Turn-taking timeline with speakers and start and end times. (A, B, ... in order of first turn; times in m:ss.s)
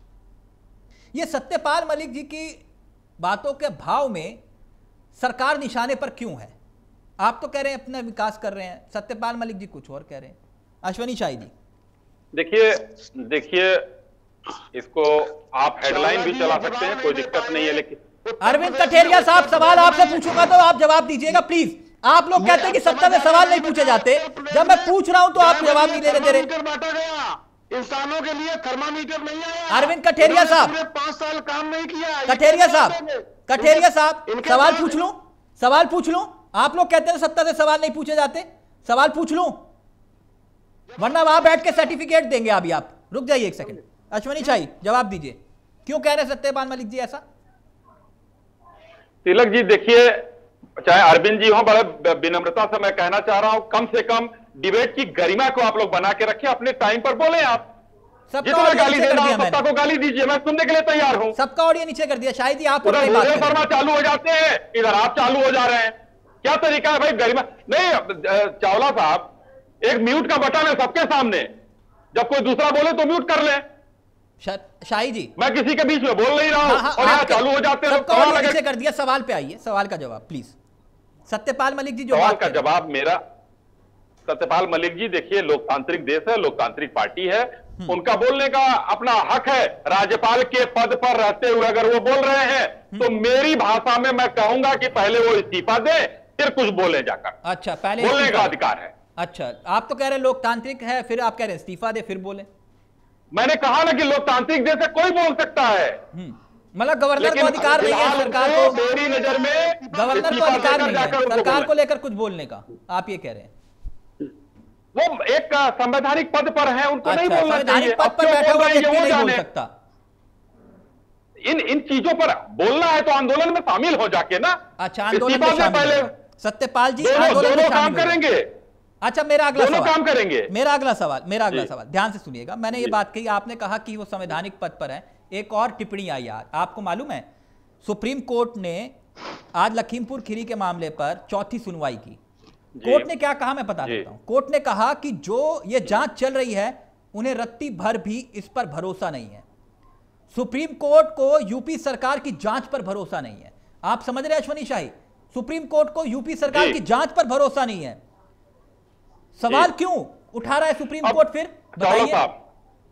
0:01.1-0:02.6 A
0:03.2-0:04.4 A
0:05.2-0:06.5 A
0:07.2-0:11.5 A
0:12.3-0:13.8 B
0:14.7-0:18.0 B
0:15.8-0:20.4 C
0:18.4-0:26.4 A
0:22.4-0:35.0 C
0:29.7-0:30.7 A
0:32.3-0:39.6 A
0:41.0-0:47.2 A
0:49.2-0:50.2 B
0:50.8-0:57.7 B
0:58.3-0:59.6 A
0:58.4-1:01.3 B
1:01.4-1:03.6 A
1:02.8-1:09.3 B
1:09.8-1:11.5 B
1:12.1-1:13.6 B
1:14.4-1:15.3 A
1:15.4-1:18.6 B
1:16.6-1:20.6 A
1:21.3-1:22.6 A
1:22.1-1:23.2 B
1:24.3-1:37.4 B
1:37.4-1:38.5 A
1:38.0-1:38.9 B
1:39.2-1:42.5 A
1:43.3-1:46.0 B
1:46.1-1:48.8 A
1:47.2-1:51.7 B
1:47.9-1:51.1 C
1:49.9-1:53.5 A
1:54.9-1:59.4 B
1:57.0-1:59.7 A
2:01.4-2:04.6 B
2:04.8-2:08.2 A
2:05.1-2:06.1 B
2:07.0-2:08.5 B
2:09.0-2:09.9 A
2:09.6-2:10.5 B
2:10.5-2:17.2 A
2:17.8-2:18.9 A
2:19.5-2:22.2 A
2:22.8-2:23.1 B
2:22.8-2:29.4 A
2:30.3-2:38.0 A
2:39.4-2:42.2 A
2:41.7-2:42.3 B